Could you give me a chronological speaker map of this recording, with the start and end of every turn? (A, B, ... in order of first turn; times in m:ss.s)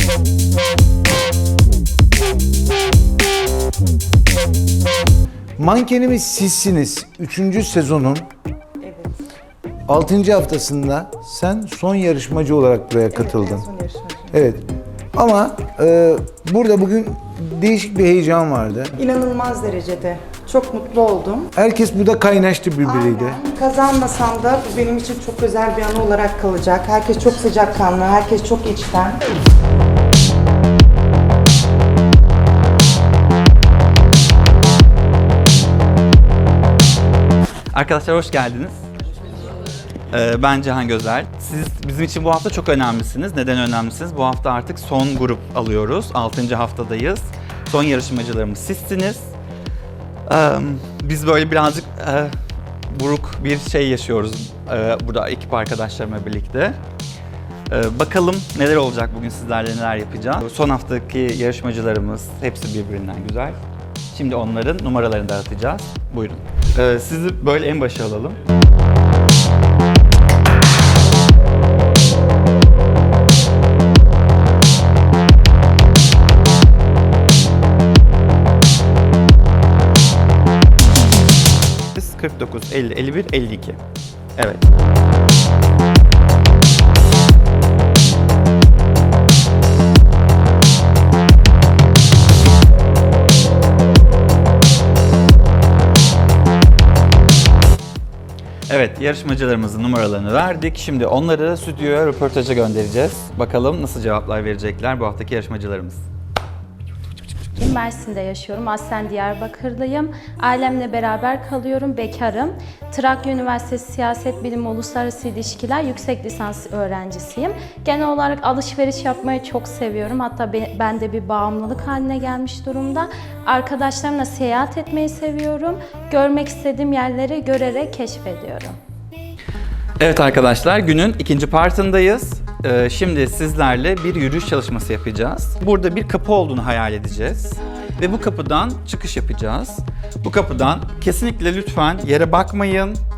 0:05.6-0:08.3 A
0:08.8-0:09.1 B
0:09.9-0:13.6 A
0:13.2-0:14.3 B
0:14.3-0:19.0 A
0:19.0-0:21.5 B
0:21.6-0:23.4 A
0:22.8-0:29.2 B
0:37.7-0:38.8 C
0:40.1-0:49.3 C
0:50.3-0:52.3 C
0:52.9-0:56.8 C
0:57.7-1:03.6 C
1:04.1-1:08.4 C
1:21.9-1:23.8 C
1:24.4-1:24.6 C
1:38.7-1:46.0 C
1:47.6-2:08.8 D
2:10.0-2:23.0 C